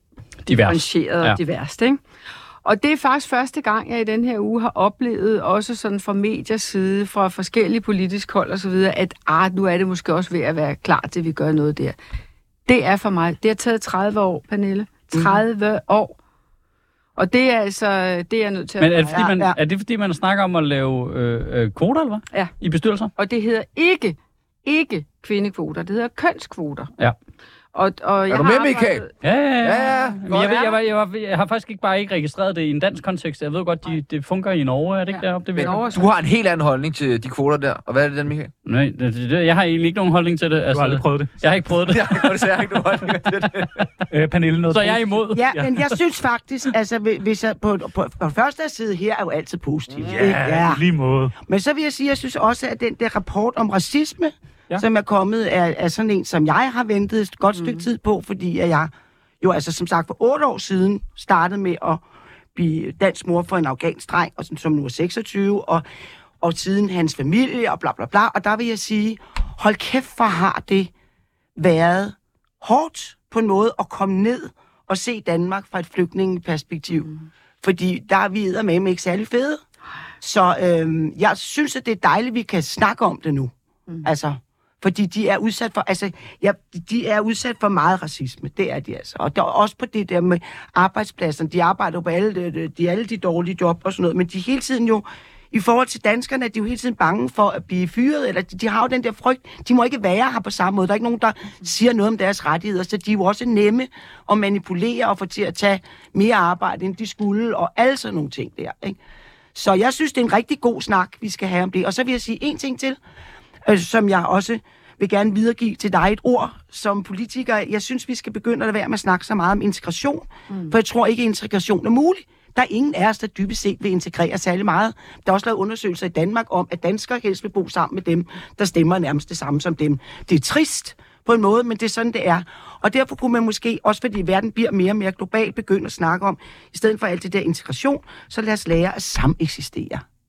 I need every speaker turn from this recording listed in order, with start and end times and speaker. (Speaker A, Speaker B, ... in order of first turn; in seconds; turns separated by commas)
Speaker A: 0.5-1.4, Speaker B: 0.5-2.0, Speaker B: 2.6-12.0, Speaker B: 12.7-16.2, Speaker B: 17.2-19.1, Speaker A: 18.8-23.1, Speaker C: 19.1-19.6, Speaker B: 23.2-26.9, Speaker B: 27.8-29.1, Speaker D: 28.3-29.1, Speaker A: 29.2-35.8, Speaker D: 29.6-30.8, Speaker B: 35.1-36.0, Speaker D: 35.6-38.5, Speaker A: 38.7-42.5, Speaker E: 40.7-41.4, Speaker D: 41.9-43.8, Speaker E: 44.1-45.7, Speaker A: 44.7-45.5, Speaker C: 45.3-50.8, Speaker D: 49.9-50.4, Speaker E: 50.2-51.3, Speaker C: 51.5-62.0, Speaker B: 57.5-57.9, Speaker C: 62.5-65.8, Speaker C: 66.4-70.9, Speaker C: 71.6-77.1, Speaker C: 77.6-79.6, Speaker C: 80.2-83.5, Speaker C: 84.0-109.0, Speaker C: 109.5-113.0, Speaker C: 113.7-140.0, Speaker B: 120.5-120.8